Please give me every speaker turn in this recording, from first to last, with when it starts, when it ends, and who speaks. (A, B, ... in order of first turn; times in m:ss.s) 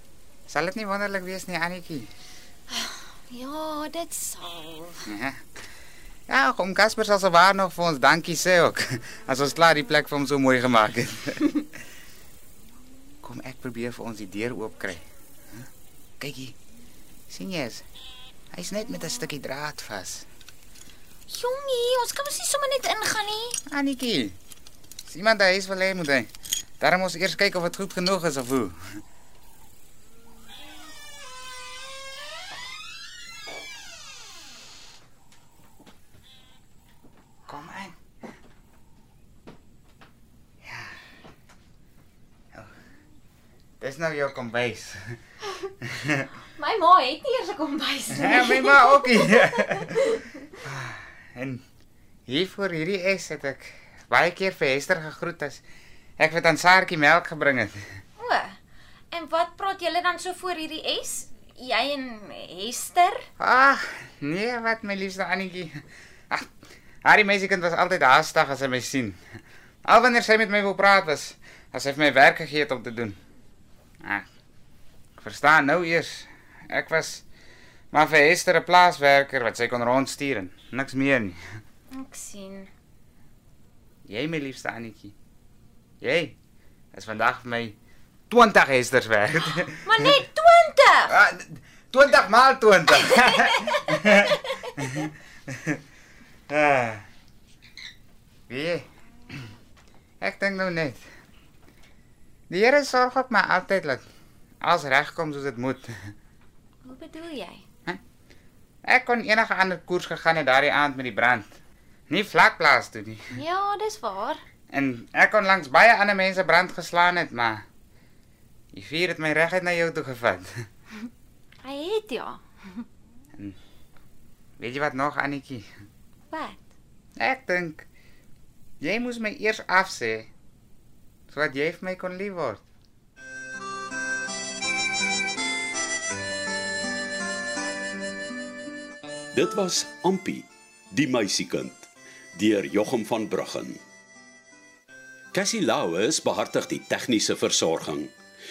0:00.5-0:02.1 A
0:02.7-0:05.1 B
0:05.1-0:05.4 A
0:06.3-0:11.5 A
0:13.2-0:15.0 A
0:16.2-0:16.6 A
0:17.3-0:17.8 A
0:18.5-0:20.3 A
0:21.3-0:23.6 B
0:23.7-0:24.4 A
0:25.1-0:26.3 A
0:26.8-0:28.8 A
0:37.5-0:38.0 A
0:40.6-0:40.9 A
0:43.8-0:45.2 A
0:45.8-0:46.2 A
0:46.6-0:50.4 B
0:48.1-0:50.0 A
0:50.6-0:51.6 A
0:52.3-0:55.6 A
0:56.2-0:57.8 A
0:58.2-0:58.6 B
0:59.1-1:03.2 B
1:03.4-1:06.5 A
1:07.0-1:09.2 A
1:09.8-1:13.2 A
1:15.2-1:17.2 A
1:17.9-1:21.4 A
1:21.9-1:22.7 B
1:24.1-1:25.1 A
1:26.0-1:26.3 A
1:26.9-1:27.8 A
1:28.3-1:30.1 A
1:29.8-1:31.1 B
1:31.1-1:34.2 A
1:33.1-1:34.7 B
1:34.8-1:35.8 A
1:36.5-1:37.0 A
1:38.5-1:38.8 A
1:40.2-1:41.0 A
1:42.5-1:44.0 A
1:44.6-1:45.9 A
1:46.8-1:47.6 B
1:48.8-1:51.5 A
1:52.1-1:53.2 A
1:53.3-1:54.4 B
1:54.7-1:57.6 A
1:58.7-2:00.6 A
2:01.6-2:02.8 B
2:04.6-2:05.7 A
2:06.3-2:06.6 B
2:07.2-2:07.9 A
2:08.8-2:10.3 A
2:11.3-2:12.6 A
2:19.3-2:23.8 C
2:25.3-2:28.1 C